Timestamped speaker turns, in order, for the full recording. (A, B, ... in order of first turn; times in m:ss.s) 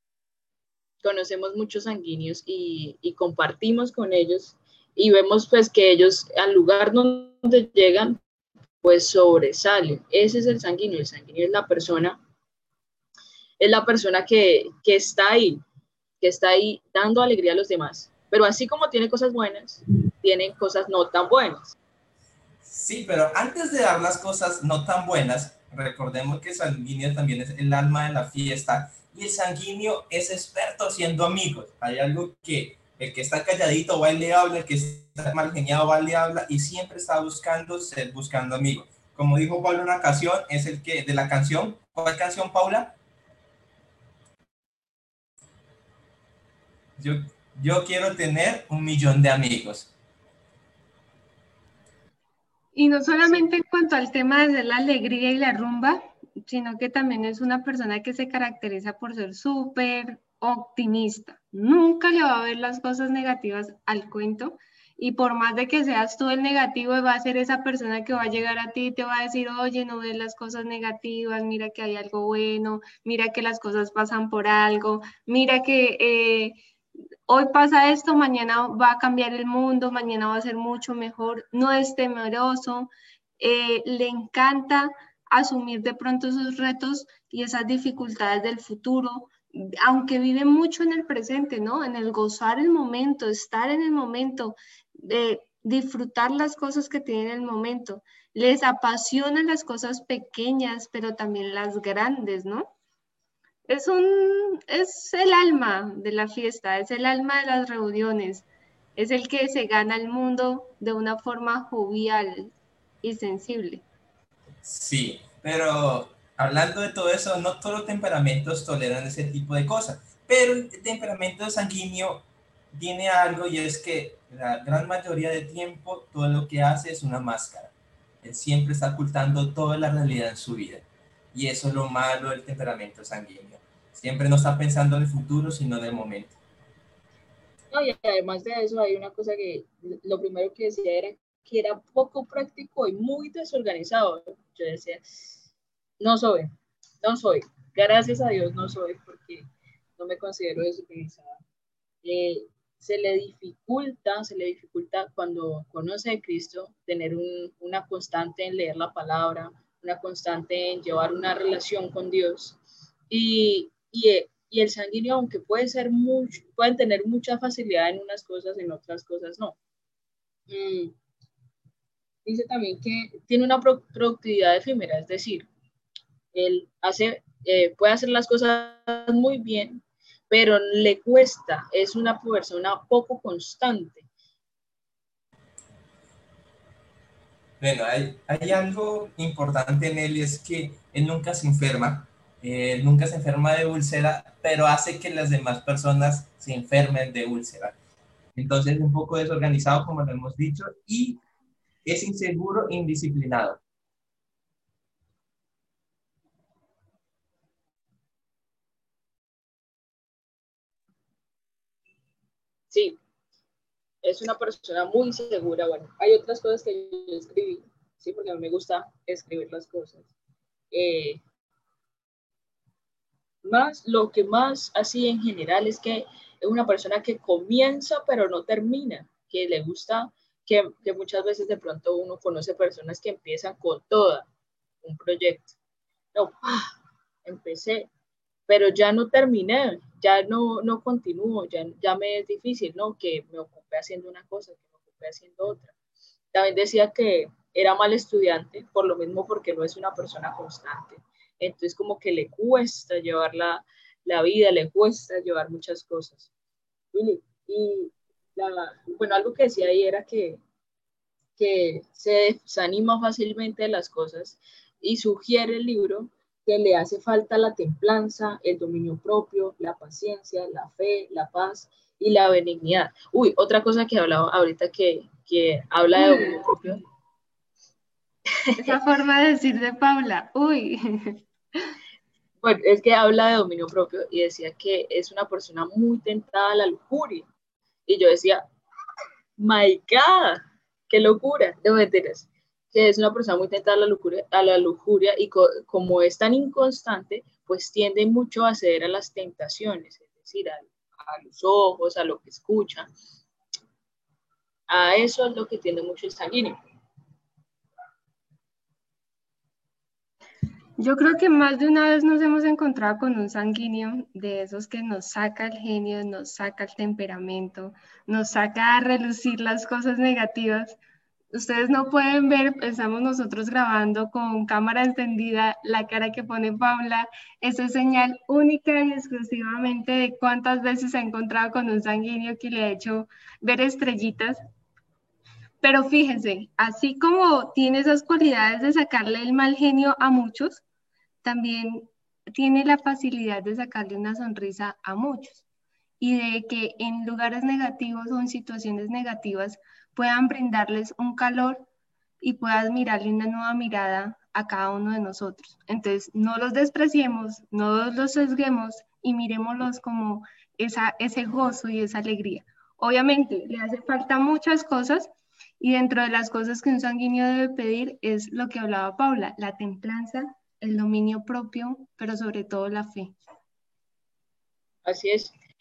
0:01.0-0:08.2 A
0:08.8-0:12.2 A
0:13.6-0:15.6 A
0:16.2-0:21.7 A
0:22.6-0:43.0 B
0:47.0-0:49.9 B
0:52.7-1:16.6 C
0:53.2-0:53.5 A
1:17.3-1:42.7 C
1:43.7-1:53.8 C
1:54.6-2:16.3 B
2:17.7-2:25.4 A
2:26.0-2:29.4 A
2:30.0-2:31.4 A
2:32.0-2:42.6 A
2:43.1-2:49.6 A
2:50.5-2:50.9 A
2:52.2-2:55.5 A
2:56.3-3:04.1 A
3:07.6-3:17.7 B
3:18.3-3:21.2 B
3:21.8-3:23.6 B
3:32.7-3:33.0 A
3:34.0-3:40.1 A
3:40.7-3:41.2 A
3:43.4-3:54.3 A
3:54.8-3:55.6 A
3:56.1-3:56.7 A
3:57.2-3:57.9 A
3:58.5-4:05.7 A
4:06.3-4:16.3 A
4:16.9-4:20.4 A
4:21.4-4:36.8 A
4:35.9-4:36.7 C
4:38.4-4:38.8 A
4:38.6-4:41.2 C
4:42.4-4:47.3 A
4:47.8-4:48.4 A
4:49.4-5:02.9 A
5:04.7-5:06.6 A
5:10.8-5:20.8 C
5:21.3-5:34.4 C
5:35.6-5:40.6 C
5:41.2-5:45.4 C
5:46.0-5:51.7 C
5:52.2-6:13.1 C
6:14.8-6:15.3 A